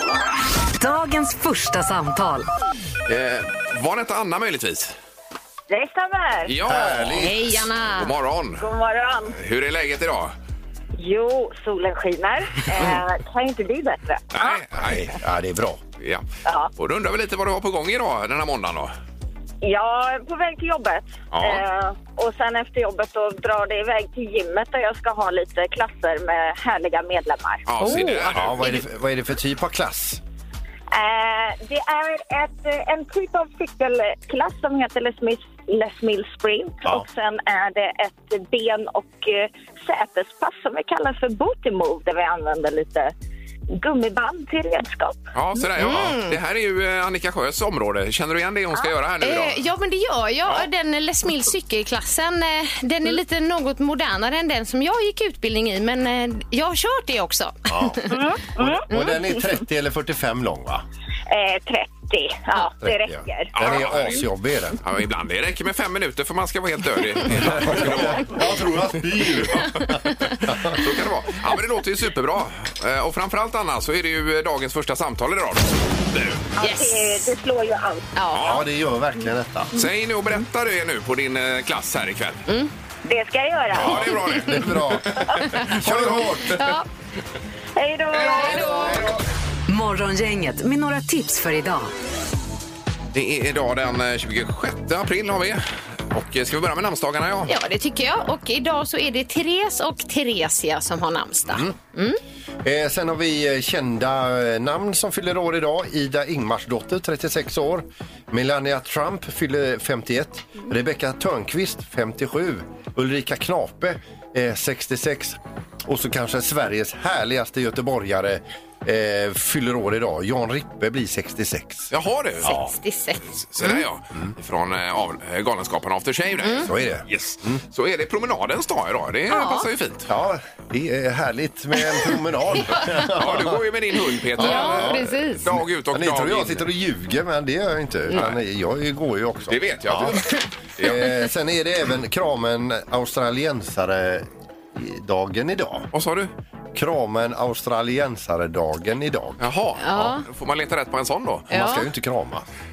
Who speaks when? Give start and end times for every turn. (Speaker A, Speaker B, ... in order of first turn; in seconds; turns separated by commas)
Speaker A: 0.8-2.5, Speaker B: 3.1-4.9, Speaker C: 5.7-6.5, Speaker B: 6.5-8.6, Speaker D: 6.6-7.6, Speaker E: 7.2-8.1, Speaker C: 8.6-9.3, Speaker B: 9.3-10.3, Speaker C: 11.0-14.5, Speaker B: 14.3-15.1, Speaker D: 15.1-15.8, Speaker C: 16.4-16.7, Speaker B: 16.8-18.9, Speaker C: 19.6-27.6, Speaker B: 21.3-21.6, Speaker B: 27.7-28.8, Speaker D: 27.8-30.2, Speaker C: 30.9-43.1, Speaker C: 43.8-45.3, Speaker B: 45.3-49.6, Speaker E: 45.8-46.4, Speaker E: 49.2-58.2, Speaker D: 57.7-58.0, Speaker C: 58.1-58.8, Speaker D: 58.8-60.8, Speaker C: 61.3-63.6, Speaker D: 62.8-64.8, Speaker B: 63.5-64.2, Speaker B: 64.8-68.6, Speaker D: 67.3-70.8, Speaker E: 70.0-70.4, Speaker B: 70.7-75.7, Speaker C: 76.6-78.1, Speaker E: 76.6-77.3, Speaker E: 78.2-78.6, Speaker B: 78.3-78.6, Speaker D: 78.4-79.7, Speaker B: 79.7-82.5, Speaker C: 83.0-84.2, Speaker B: 83.7-86.5, Speaker D: 83.8-86.6, Speaker E: 85.6-86.8, Speaker C: 87.8-89.0, Speaker E: 88.3-89.0, Speaker B: 88.4-89.2, Speaker A: 89.7-91.9, Speaker B: 93.1-97.5, Speaker E: 97.5-102.2, Speaker D: 101.5-101.8, Speaker D: 102.6-121.9, Speaker B: 121.9-122.7, Speaker E: 122.4-123.8, Speaker B: 123.3-130.1, Speaker E: 126.4-126.7, Speaker D: 126.6-127.6, Speaker E: 129.3-129.7, Speaker D: 130.1-133.7, Speaker B: 132.9-136.7, Speaker D: 134.3-135.0, Speaker E: 134.4-135.5, Speaker D: 135.9-145.9, Speaker B: 138.1-138.4, Speaker B: 139.5-141.1, Speaker B: 145.9-146.3, Speaker D: 146.7-149.4, Speaker B: 149.4-151.5, Speaker E: 149.8-150.2, Speaker E: 151.5-151.9, Speaker D: 151.5-152.5